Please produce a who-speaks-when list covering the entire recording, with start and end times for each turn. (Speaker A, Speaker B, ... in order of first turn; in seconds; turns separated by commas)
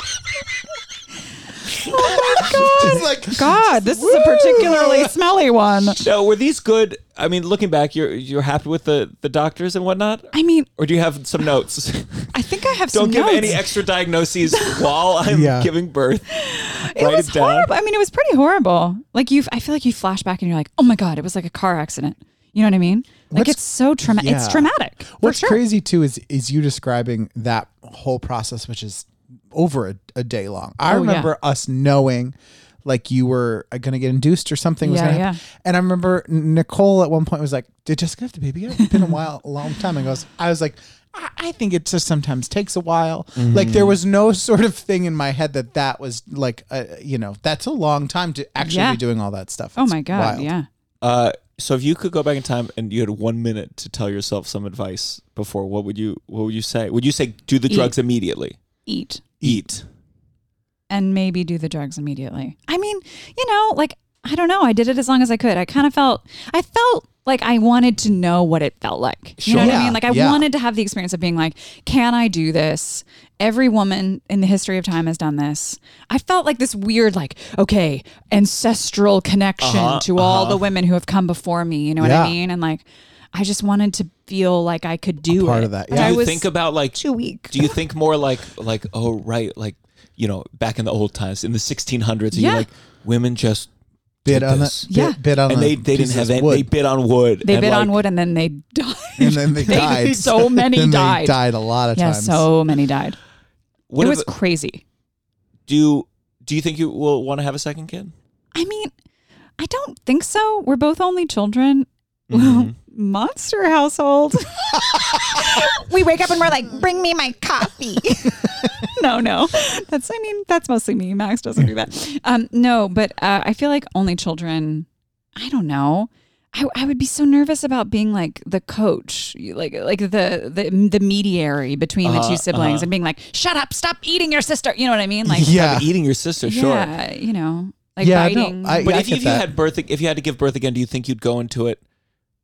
Speaker A: 1.8-5.1, Speaker B: 1.9-6.0, Speaker C: 6.0-12.3, Speaker B: 10.3-10.7, Speaker B: 12.3-13.7, Speaker C: 12.9-17.7, Speaker B: 14.5-15.1, Speaker A: 15.3-15.7, Speaker B: 16.3-25.6, Speaker A: 23.3-50.5, Speaker B: 30.9-31.3, Speaker B: 34.8-35.4, Speaker B: 38.8-39.1, Speaker C: 43.4-44.0, Speaker B: 48.6-49.0, Speaker B: 49.8-50.7, Speaker C: 51.0-58.6, Speaker B: 58.9-59.3, Speaker A: 59.4-59.7, Speaker C: 59.4-59.8, Speaker B: 60.9-87.8, Speaker C: 69.4-70.0, Speaker A: 69.6-70.5, Speaker C: 79.6-80.6, Speaker A: 82.0-82.4, Speaker A: 85.3-86.2, Speaker C: 85.9-87.0, Speaker C: 87.5-93.7, Speaker B: 92.3-92.7, Speaker C: 94.2-94.9, Speaker A: 94.3-96.7, Speaker B: 94.9-95.2, Speaker C: 95.5-98.0, Speaker B: 97.4-101.4, Speaker A: 99.2-102.5, Speaker B: 102.0-103.2, Speaker C: 103.9-104.3, Speaker B: 104.0-104.8, Speaker C: 105.7-108.1, Speaker B: 108.5-108.9, Speaker B: 109.6-135.6, Speaker C: 112.3-112.7, Speaker C: 132.0-132.9, Speaker A: 135.3-135.9, Speaker C: 135.4-136.9, Speaker B: 136.4-138.9, Speaker A: 138.0-139.5, Speaker C: 138.8-141.8